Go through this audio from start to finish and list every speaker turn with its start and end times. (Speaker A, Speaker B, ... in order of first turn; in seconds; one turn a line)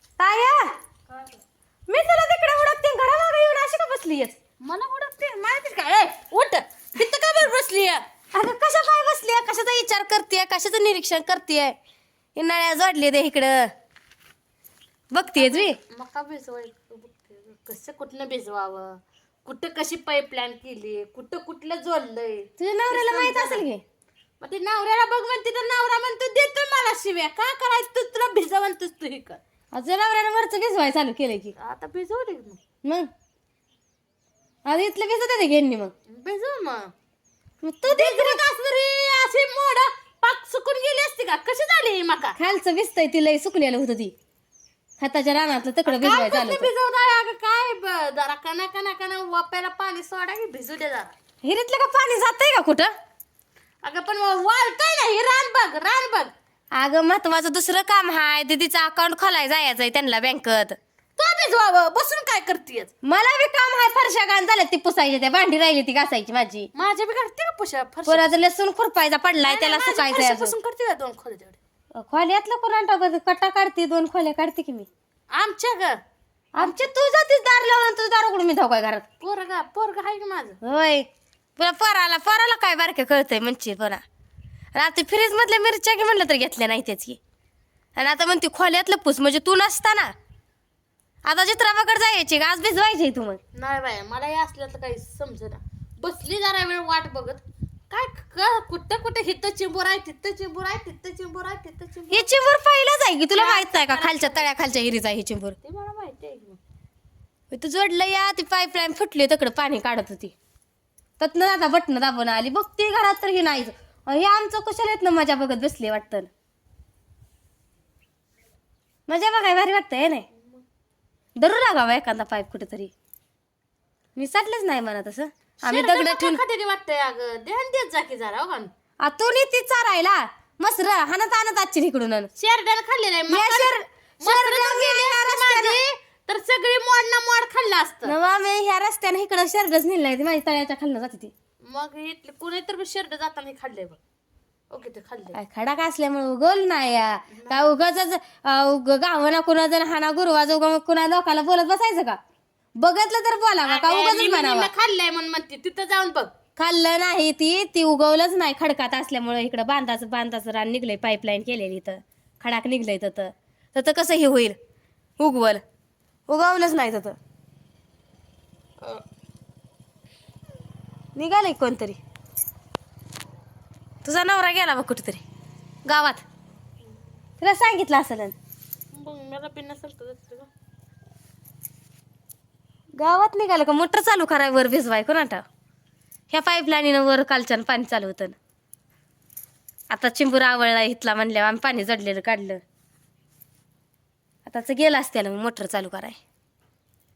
Speaker A: 0.2-0.7
Speaker B: 1.1-1.4
Speaker A: 1.9-4.3
Speaker B: 4.6-8.0
Speaker A: 8.3-11.8
Speaker A: 12.3-13.7
Speaker A: 15.1-15.8
Speaker B: 15.3-23.6
Speaker A: 22.6-23.8
Speaker B: 24.4-29.4
Speaker A: 29.7-31.5
Speaker B: 31.6-32.6
Speaker A: 34.6-35.9
Speaker B: 36.1-36.9
Speaker A: 37.6-38.4
Speaker B: 37.9-42.4
Speaker A: 42.4-44.1
Speaker A: 45.0-46.7
Speaker B: 45.9-51.1
Speaker A: 51.4-52.9
Speaker B: 53.8-56.3
Speaker A: 56.8-60.8
Speaker B: 61.2-62.9
Speaker A: 63.0-66.7
Speaker B: 66.7-68.3
Speaker A: 68.1-70.5
Speaker B: 69.4-71.6
Speaker A: 71.9-74.9
Speaker B: 75.3-76.0
Speaker A: 76.5-79.0
Speaker B: 76.6-76.8
Speaker B: 79.2-80.6
Speaker A: 80.6-84.0
Speaker A: 84.7-87.2
Speaker A: 88.0-90.1
Speaker A: 91.2-93.4
Speaker B: 93.5-102.3
Speaker A: 102.1-105.5
Speaker B: 103.3-104.5
Speaker B: 105.6-106.6
Speaker A: 107.5-110.3
Speaker A: 111.2-116.3
Speaker A: 119.1-120.2
Speaker B: 120.3-120.6
Speaker A: 121.4-122.9
Speaker A: 124.2-126.4
Speaker B: 125.6-128.7
Speaker A: 129.0-132.3
Speaker B: 132.4-138.1
Speaker A: 133.3-135.8
Speaker A: 138.0-141.3
Speaker B: 141.7-144.0
Speaker B: 144.7-145.4
Speaker A: 145.3-152.2
Speaker B: 147.3-147.7
Speaker A: 152.8-154.7
Speaker B: 153.6-156.3
Speaker A: 156.6-164.6
Speaker A: 165.2-165.6
Speaker A: 166.3-167.2
Speaker A: 171.2-172.0
Speaker A: 174.0-175.2
Speaker A: 175.8-176.2
Speaker A: 177.4-178.3
Speaker B: 178.9-180.5
Speaker A: 183.0-185.4
Speaker A: 186.3-188.3
Speaker A: 189.9-192.6
Speaker A: 194.4-196.2